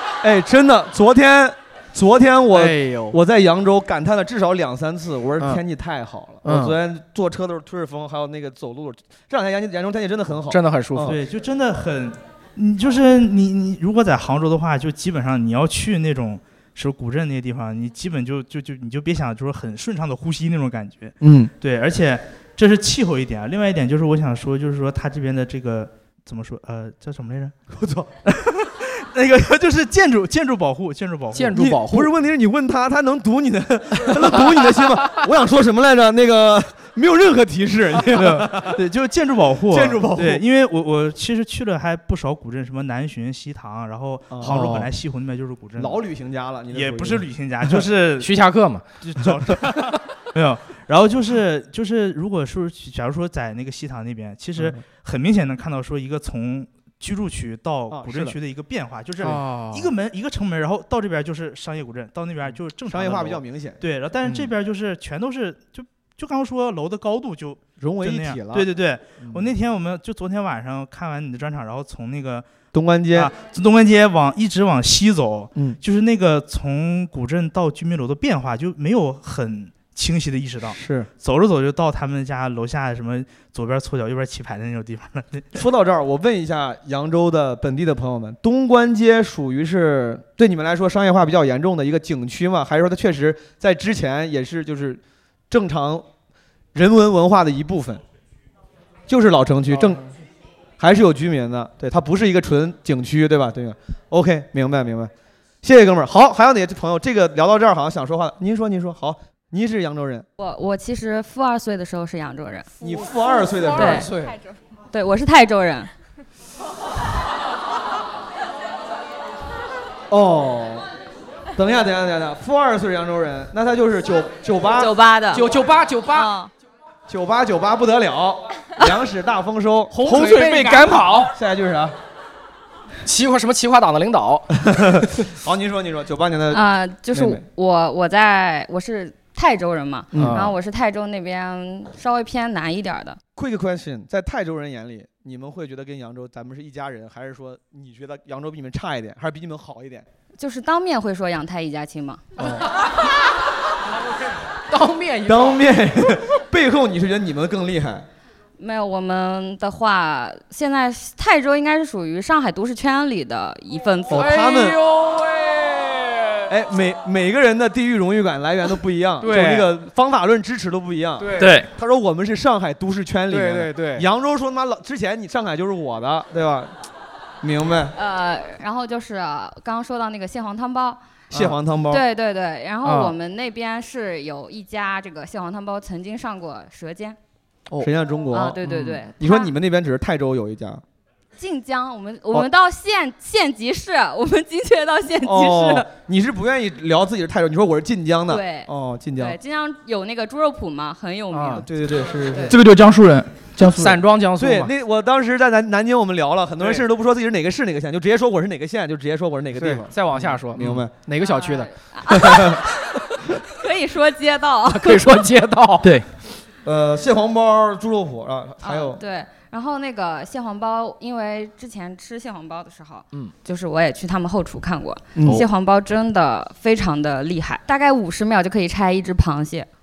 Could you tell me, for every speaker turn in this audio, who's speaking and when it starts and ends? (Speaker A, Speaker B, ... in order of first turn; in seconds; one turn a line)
Speaker A: 0.2-11.2
Speaker B: 2.5-3.2
Speaker B: 6.4-6.7
Speaker B: 10.5-11.1
Speaker C: 11.0-27.6
Speaker A: 21.2-21.5
Speaker A: 27.7-28.1
Speaker C: 28.2-31.7
Speaker B: 31.3-32.1
Speaker A: 31.5-38.8
Speaker C: 38.2-46.0
Speaker A: 39.7-40.4
Speaker A: 44.3-44.9
Speaker A: 45.8-47.8
Speaker C: 46.7-48.3
Speaker B: 48.2-48.8
Speaker C: 49.0-72.5
Speaker A: 49.2-49.6
Speaker A: 54.5-54.8
Speaker A: 57.9-58.4
Speaker B: 59.2-59.9
Speaker A: 62.5-64.4
Speaker A: 67.8-68.7
Speaker A: 69.2-69.5
Speaker A: 72.7-73.3
Speaker C: 73.1-85.6
Speaker A: 75.5-75.8
Speaker A: 80.7-81.1
Speaker A: 85.5-96.0
Speaker A: 96.7-98.0
Speaker A: 99.1-100.0
Speaker A: 100.8-105.1
Speaker A: 105.6-110.2
Speaker D: 110.4-112.7
Speaker A: 112.8-114.1
Speaker B: 113.6-114.4
Speaker D: 113.8-114.1
Speaker D: 114.9-115.9
Speaker A: 120.1-120.8
Speaker A: 121.5-125.0
Speaker D: 124.8-125.2
Speaker B: 125.3-126.3
Speaker A: 127.1-131.9
Speaker B: 129.9-131.2
Speaker E: 130.0-131.3
Speaker B: 133.0-134.5
Speaker A: 134.6-137.4
Speaker D: 136.5-143.2
Speaker A: 140.1-140.5
Speaker B: 140.2-140.5
Speaker A: 143.3-150.0
Speaker D: 150.4-152.3
Speaker B: 152.4-152.7
Speaker B: 154.7-155.6
Speaker A: 155.3-158.1
Speaker D: 158.6-164.2
Speaker A: 164.1-164.8
Speaker B: 164.1-166.4
Speaker A: 166.5-176.7
Speaker B: 169.2-169.7
Speaker B: 171.2-171.6
Speaker B: 173.3-174.1
Speaker A: 177.4-177.9
Speaker D: 177.9-181.0
Speaker A: 181.3-182.0
Speaker D: 181.9-187.2
Speaker B: 182.8-183.1
Speaker A: 187.8-190.8
Speaker D: 188.3-189.5
Speaker B: 188.6-189.0
Speaker D: 191.4-195.9
Speaker A: 195.2-199.3
Speaker D: 198.3-201.7
Speaker B: 201.3-201.6
Speaker A: 201.5-202.6
Speaker D: 202.2-202.5
Speaker E: 202.5-203.9
Speaker B: 203.6-204.7
Speaker A: 204.4-210.9
Speaker B: 209.5-211.7
Speaker D: 211.2-212.9
Speaker A: 212.1-212.6
Speaker D: 213.5-215.1
Speaker B: 214.6-216.0
Speaker A: 216.6-219.0
Speaker D: 218.6-229.7
Speaker A: 225.2-225.4